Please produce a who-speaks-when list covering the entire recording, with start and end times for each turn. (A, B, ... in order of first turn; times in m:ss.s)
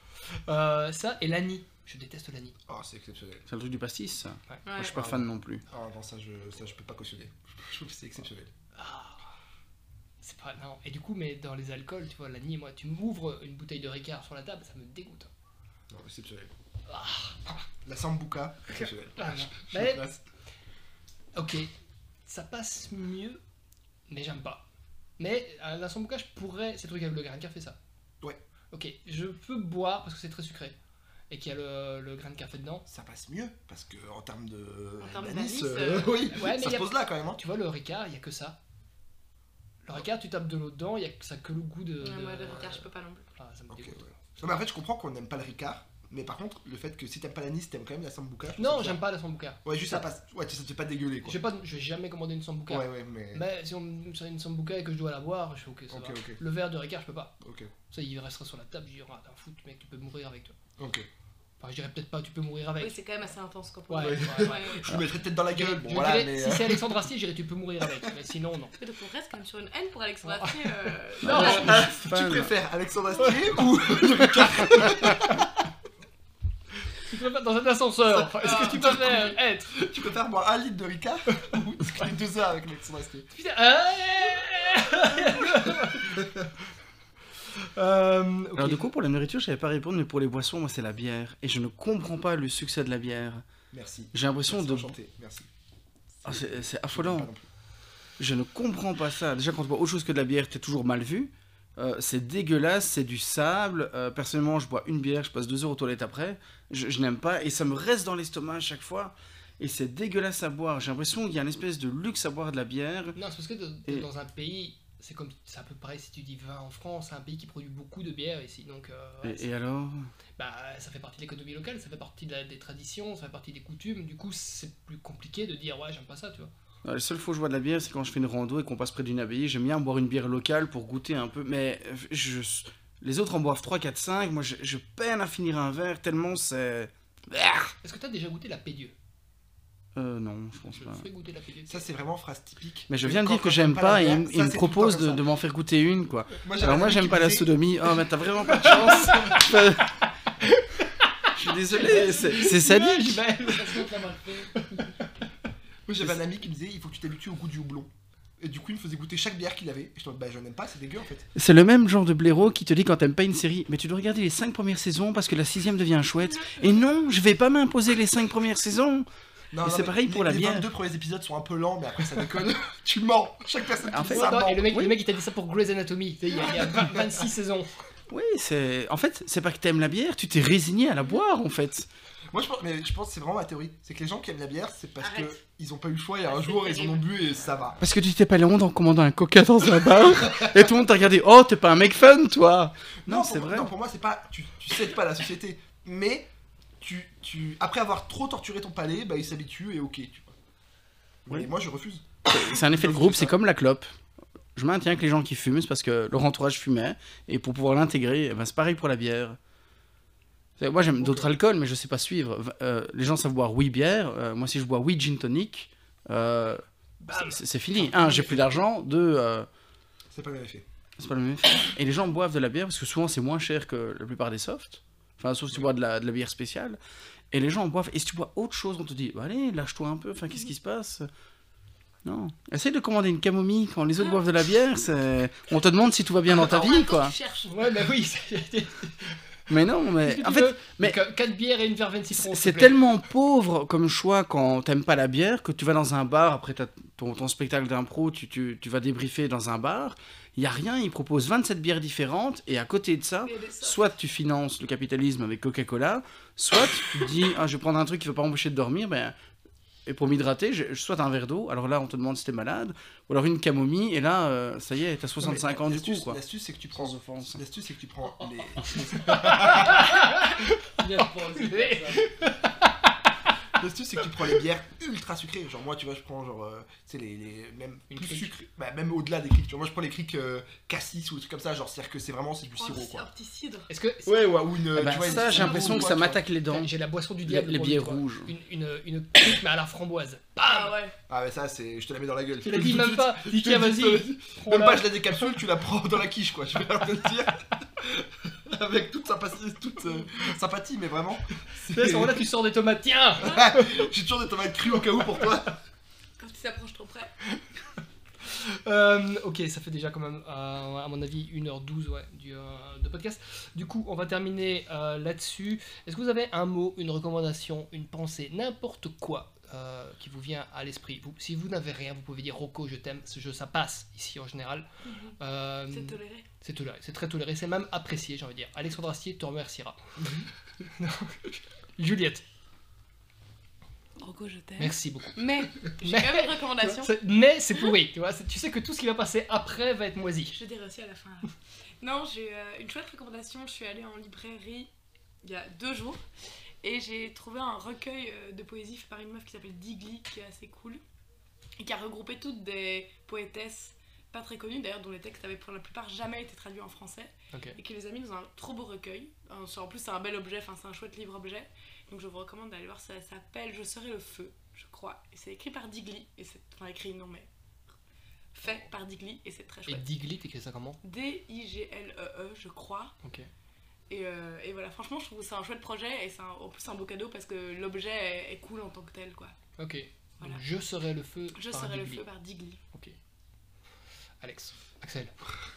0:00.4-0:02.5 A
0:02.7-0:03.4 B
0:03.5-0:05.6 C
0:04.6-0:05.0 D
0:04.8-0:08.5 B
0:08.7-0:09.3 A
0:10.2-0:15.3 A
0:15.9-0:16.5 B
0:16.9-0:17.4 A
0:17.8-0:20.2 B
0:18.7-0:20.0 A
0:21.3-0:21.7 A
0:22.2-0:23.4 A
0:24.1-0:24.6 A
0:25.2-0:27.8 A
0:28.7-0:30.8 A
0:31.3-0:32.8 A
0:32.9-0:37.4 B
0:35.0-0:36.6 D
0:36.3-0:38.6 A
0:39.8-0:44.5 A
0:42.0-0:43.3 D
0:43.7-0:49.0 B
0:48.6-0:50.0 A
0:49.6-0:51.4 B
0:51.2-0:57.4 A
0:52.7-0:53.4 B
0:55.9-0:56.4 B
0:57.4-0:57.7 B
0:57.9-1:00.6 A
1:00.8-1:01.1 B
1:01.6-1:03.0 A
1:02.8-1:05.0 D
1:03.9-1:04.9 A
1:04.0-1:06.9 B
1:05.4-1:08.8 A
1:08.8-1:11.8 D
1:10.2-1:11.9 A
1:11.2-1:12.5 C
1:11.2-1:15.4 B
1:17.0-1:19.7 A
1:18.1-1:23.3 B
1:18.4-1:19.3 D
1:23.3-1:26.3 A
1:25.4-1:26.2 B
1:27.7-1:28.9 A
1:28.6-1:33.4 C
1:33.7-1:35.5 B
1:34.1-1:34.9 C
1:36.2-1:37.4 B
1:36.2-1:37.3 C
1:38.2-1:53.2 C
1:53.1-1:59.5 A
1:59.2-2:00.1 C
2:00.4-2:06.5 A
2:06.8-2:17.7 C
2:17.8-2:18.9 A
2:20.0-2:21.0 C
2:20.7-2:21.9 A
2:21.7-2:25.3 B
2:22.9-2:30.0 C
2:26.4-2:27.8 B
2:28.5-2:29.5 A
2:28.6-2:29.3 B
2:30.4-2:33.9 A
2:31.3-2:33.2 C
2:33.4-2:34.9 E
2:34.6-2:35.3 A
2:35.8-2:41.3 B
2:41.4-2:49.1 C
2:49.5-2:54.7 B
2:49.6-2:50.7 C
2:53.9-2:54.9 C
2:54.0-2:57.7 A
2:58.1-3:01.9 C
3:02.3-3:07.8 B
3:05.0-3:05.4 D
3:06.2-3:07.3 D
3:07.8-3:13.7 C
3:13.0-3:16.3 B
3:16.8-3:20.4 B
3:21.2-3:23.4 B
3:22.2-3:23.9 C
3:24.6-3:29.4 C
3:30.6-3:39.5 C
3:31.0-3:31.3 B
3:37.0-3:38.4 A
3:40.1-3:40.6 B
3:41.0-3:46.8 C
3:47.3-3:51.1 C
3:52.0-3:57.1 C
3:56.3-3:57.7 D
3:57.4-3:59.2 A
3:59.5-4:01.0 C
4:00.0-4:02.8 A
4:02.1-4:19.1 C
4:13.2-4:13.9 D
4:19.8-4:26.2 C
4:25.2-4:29.9 B
4:26.7-4:27.4 C
4:28.9-4:32.9 A
4:30.8-4:32.1 E
4:33.6-4:43.1 B
4:37.9-4:38.3 A
4:42.5-4:43.7 D
4:43.7-4:44.3 A
4:44.0-4:46.2 B
4:44.7-4:48.3 C
4:44.9-4:45.8 A
4:46.5-4:50.7 A
4:50.4-4:50.9 D
4:51.1-5:02.3 B
4:52.4-4:54.9 A
5:01.7-5:03.7 A
5:03.2-5:05.6 B
5:06.2-5:07.1 D
5:08.2-5:24.7 A
5:24.8-5:25.1 D
5:25.2-5:29.9 A
5:25.7-5:26.2 D
5:30.0-5:30.3 B
5:30.8-5:32.2 A
5:34.0-5:37.0 D
5:34.6-5:40.4 A
5:40.3-5:44.7 D
5:45.2-5:46.0 D
5:46.6-5:50.8 D
5:51.6-6:07.3 D
6:08.3-6:09.8 D
6:09.6-6:10.8 A
6:10.8-6:12.9 D
6:13.0-6:13.3 A
6:13.9-6:19.4 D
6:19.6-6:22.0 A
6:21.3-6:22.6 D
6:24.2-6:25.1 A